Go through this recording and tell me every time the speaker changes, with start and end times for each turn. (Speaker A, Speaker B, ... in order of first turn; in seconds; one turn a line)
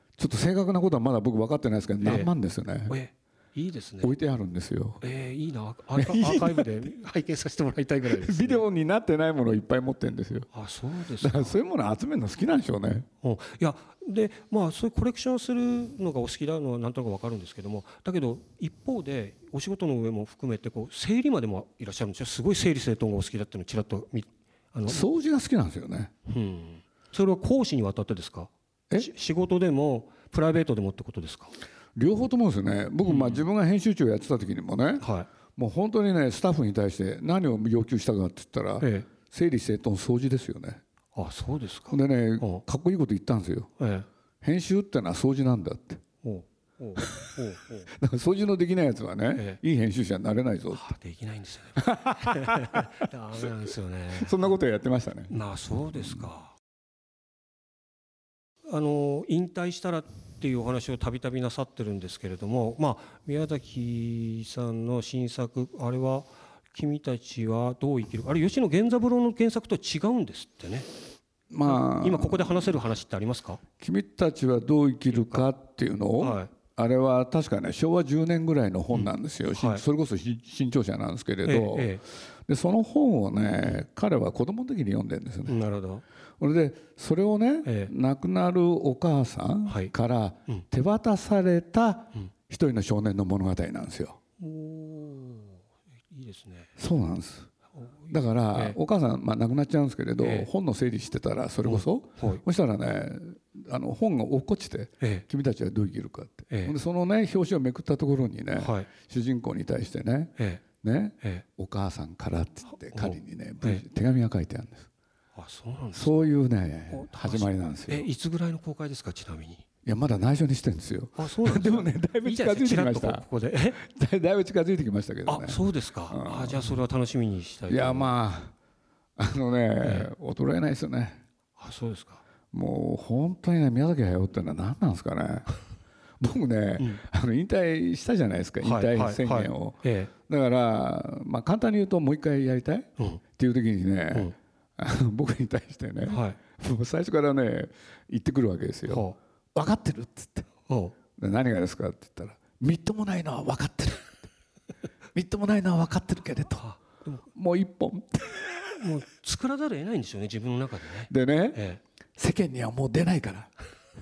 Speaker A: 0.2-3.0
Speaker B: 2.0-2.3
Speaker B: 2.9-4.1
Speaker A: 4.0-5.0
Speaker B: 5.0-8.6
Speaker A: 6.0-6.9
Speaker A: 8.1-10.5
Speaker B: 10.5-11.6
Speaker A: 11.2-13.1
Speaker B: 13.2-25.0
Speaker A: 24.9-26.1
Speaker B: 26.3-31.5
Speaker A: 31.9-35.0
Speaker B: 33.0-33.5
Speaker B: 35.0-35.3
Speaker A: 35.5-40.8
Speaker B: 38.8-39.1
Speaker B: 41.1-42.6
Speaker A: 41.9-43.7
Speaker B: 43.8-44.1
Speaker A: 44.4-46.0
Speaker B: 46.2-47.9
Speaker A: 47.0-47.2
Speaker A: 47.9-50.9
Speaker B: 49.3-49.6
Speaker B: 50.7-54.5
Speaker A: 51.8-52.9
Speaker A: 54.1-55.3
Speaker B: 55.3-56.5
Speaker A: 56.0-56.2
Speaker B: 58.6-70.9
Speaker A: 71.5-72.8
Speaker B: 71.7-73.6
Speaker A: 73.8-85.6
Speaker B: 75.1-75.5
Speaker B: 76.2-76.5
Speaker B: 78.9-79.8
Speaker B: 81.4-82.0
Speaker B: 85.5-86.0
Speaker A: 86.4-94.2
Speaker B: 87.6-87.9
Speaker B: 89.7-89.9
Speaker B: 94.4-96.7
Speaker A: 96.8-97.5
Speaker B: 97.8-98.8
Speaker A: 98.1-114.9
Speaker B: 100.2-100.5
Speaker B: 101.6-102.4
Speaker B: 105.0-105.2
Speaker B: 106.5-106.7
Speaker B: 108.5-108.9
Speaker B: 110.4-110.6
Speaker B: 112.7-113.8
Speaker B: 115.3-116.3
Speaker A: 115.9-118.1
Speaker B: 116.9-119.6
Speaker A: 119.8-123.2
Speaker B: 121.2-123.8
Speaker A: 123.8-126.7
Speaker B: 125.2-128.1
Speaker A: 127.7-128.5
Speaker A: 129.2-131.2
Speaker B: 129.8-130.1
Speaker B: 131.6-132.2
Speaker A: 132.5-135.5
Speaker A: 136.2-150.5
Speaker B: 138.6-140.1
Speaker B: 146.1-146.4
Speaker B: 148.9-149.2
Speaker B: 150.7-150.9
Speaker A: 151.2-154.2
Speaker A: 155.1-156.7
Speaker B: 156.6-157.2
Speaker A: 157.3-158.5
Speaker B: 158.6-161.8
Speaker A: 161.1-161.6
Speaker A: 162.2-163.5